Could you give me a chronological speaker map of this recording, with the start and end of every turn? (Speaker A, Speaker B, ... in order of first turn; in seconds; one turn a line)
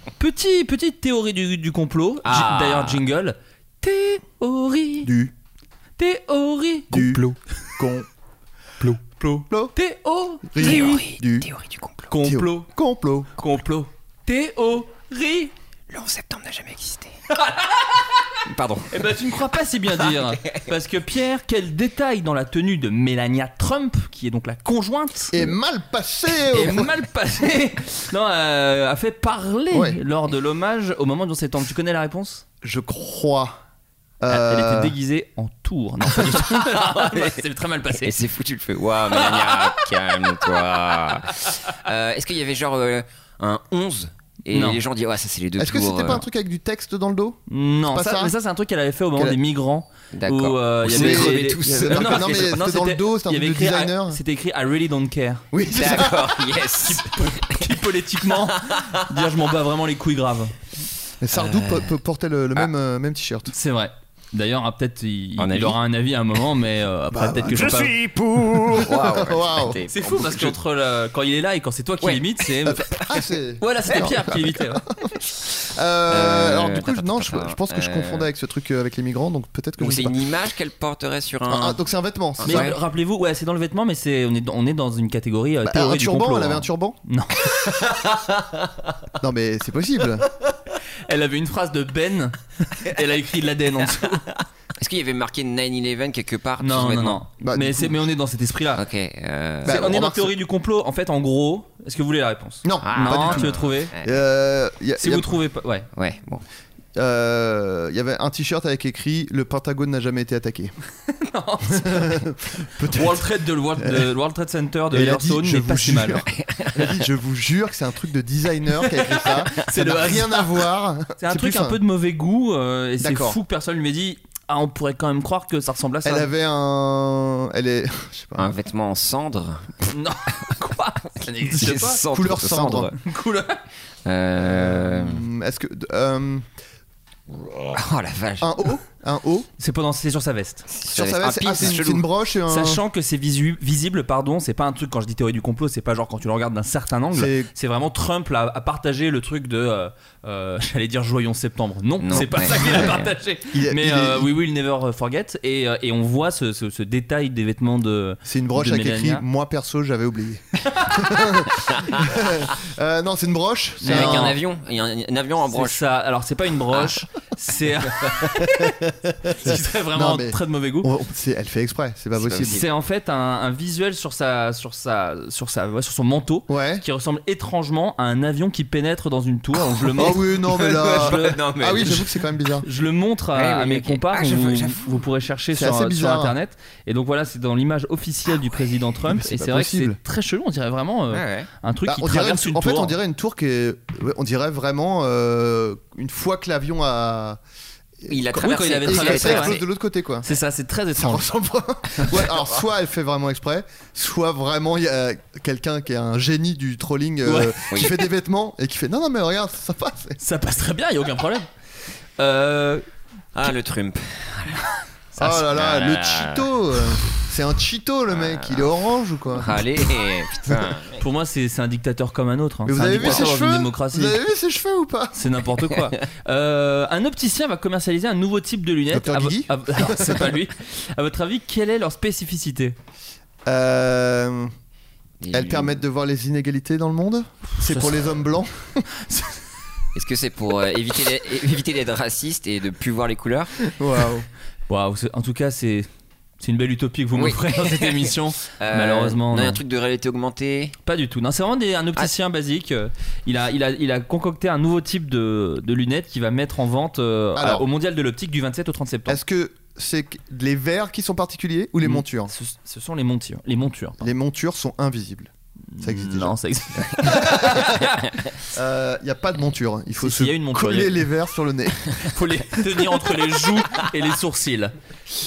Speaker A: 0.1-5.1
Speaker B: 2.2-3.0
Speaker C: 5.0-5.3
Speaker A: 6.0-7.2
Speaker C: 6.9-8.1
Speaker C: 8.8-9.7
Speaker A: 9.1-11.0
Speaker C: 10.5-11.5
Speaker B: 10.6-12.1
Speaker A: 12.1-12.7
Speaker C: 12.2-13.3
Speaker A: 13.4-15.5
Speaker B: 15.9-17.1
Speaker A: 17.3-18.3
Speaker B: 18.4-18.9
Speaker A: 18.9-25.4
Speaker B: 20.0-20.6
Speaker C: 25.3-26.9
Speaker A: 26.5-32.4
Speaker C: 29.7-30.0
Speaker C: 32.6-33.6
Speaker C: 34.2-34.9
Speaker A: 34.3-38.1
Speaker B: 36.2-37.4
Speaker B: 37.9-46.2
Speaker A: 44.5-44.8
Speaker C: 45.6-48.3
Speaker A: 47.5-55.4
Speaker B: 50.1-52.5
Speaker C: 50.8-54.2
Speaker C: 55.5-56.5
Speaker B: 55.7-57.7
Speaker A: 56.8-60.5
Speaker B: 58.5-59.0
Speaker C: 61.2-63.5
Speaker B: 61.3-61.9
Speaker A: 63.5-67.9
Speaker B: 65.4-65.8
Speaker C: 67.1-69.8
Speaker B: 67.6-70.6
Speaker A: 69.9-72.9
Speaker B: 72.0-73.2
Speaker C: 72.7-80.2
Speaker A: 73.6-74.8
Speaker B: 73.9-74.5
Speaker B: 76.1-78.3
Speaker B: 79.8-81.8
Speaker C: 81.5-82.8
Speaker B: 82.4-82.8
Speaker A: 82.4-87.6
Speaker C: 85.7-87.0
Speaker B: 87.7-88.2
Speaker C: 89.2-90.3
Speaker A: 91.1-94.2
Speaker B: 94.8-97.2
Speaker A: 96.6-98.8
Speaker C: 97.4-98.0
Speaker B: 98.7-99.8
Speaker C: 99.6-100.3
Speaker A: 99.7-103.9
Speaker C: 102.6-105.3
Speaker B: 102.8-104.2
Speaker A: 105.0-105.9
Speaker B: 105.9-106.4
Speaker C: 106.9-110.7
Speaker A: 111.2-112.2
Speaker C: 111.7-114.1
Speaker A: 112.9-116.2
Speaker C: 114.9-121.8
Speaker B: 116.3-117.0
Speaker A: 118.9-120.5
Speaker A: 121.2-126.3
Speaker C: 123.0-123.4
Speaker C: 126.0-128.5
Speaker B: 128.4-129.9
Speaker A: 129.9-132.0
Speaker B: 131.5-132.9
Speaker C: 132.1-132.9
Speaker A: 133.0-133.6
Speaker B: 134.1-135.2
Speaker C: 134.4-136.4
Speaker B: 137.7-138.7
Speaker C: 138.4-139.5
Speaker A: 139.6-140.7
Speaker B: 140.7-142.0
Speaker C: 140.9-142.8
Speaker A: 142.5-159.2
Speaker C: 147.1-147.5
Speaker B: 152.0-153.1
Speaker C: 152.1-153.0
Speaker C: 153.5-154.3
Speaker C: 158.3-164.3
Speaker B: 161.7-162.1
Speaker A: 163.8-164.4
Speaker B: 163.8-165.8
Speaker A: 165.5-170.9
Speaker B: 166.7-167.0
Speaker C: 169.3-172.6
Speaker B: 172.2-172.7
Speaker A: 172.5-180.2
Speaker C: 176.5-176.8
Speaker C: 179.9-182.7
Speaker B: 180.0-182.1
Speaker A: 180.9-181.3
Speaker A: 182.6-192.9
Speaker B: 183.3-184.9
Speaker C: 185.5-186.3
Speaker C: 189.1-190.0
Speaker B: 191.1-191.5
Speaker C: 191.8-197.4
Speaker C: 198.0-200.3
Speaker B: 198.1-199.6
Speaker A: 198.3-199.6
Speaker A: 200.2-201.3
Speaker C: 200.9-210.2
Speaker A: 207.2-207.8
Speaker A: 210.2-211.5
Speaker A: 212.2-212.8
Speaker B: 213.3-214.7
Speaker A: 215.2-215.4
Speaker C: 215.2-219.7
Speaker B: 215.5-216.5
Speaker B: 218.1-218.7
Speaker B: 219.3-221.0
Speaker C: 220.5-220.8
Speaker A: 220.9-224.2
Speaker C: 222.7-225.2
Speaker B: 223.0-223.3
Speaker A: 225.1-232.8
Speaker B: 225.8-226.0
Speaker C: 228.9-230.4
Speaker C: 233.4-234.5
Speaker B: 235.2-235.8
Speaker C: 235.3-238.8
Speaker A: 237.6-238.0
Speaker B: 239.9-243.6
Speaker C: 243.7-244.3
Speaker A: 244.7-245.9
Speaker A: 246.4-249.6
Speaker B: 247.2-250.8
Speaker A: 250.8-259.2
Speaker C: 257.3-257.7
Speaker C: 259.1-262.3
Speaker A: 261.8-264.1
Speaker C: 264.0-266.3
Speaker A: 265.7-268.2
Speaker C: 267.0-267.8
Speaker C: 268.5-271.8
Speaker A: 270.0-271.1
Speaker A: 272.0-274.7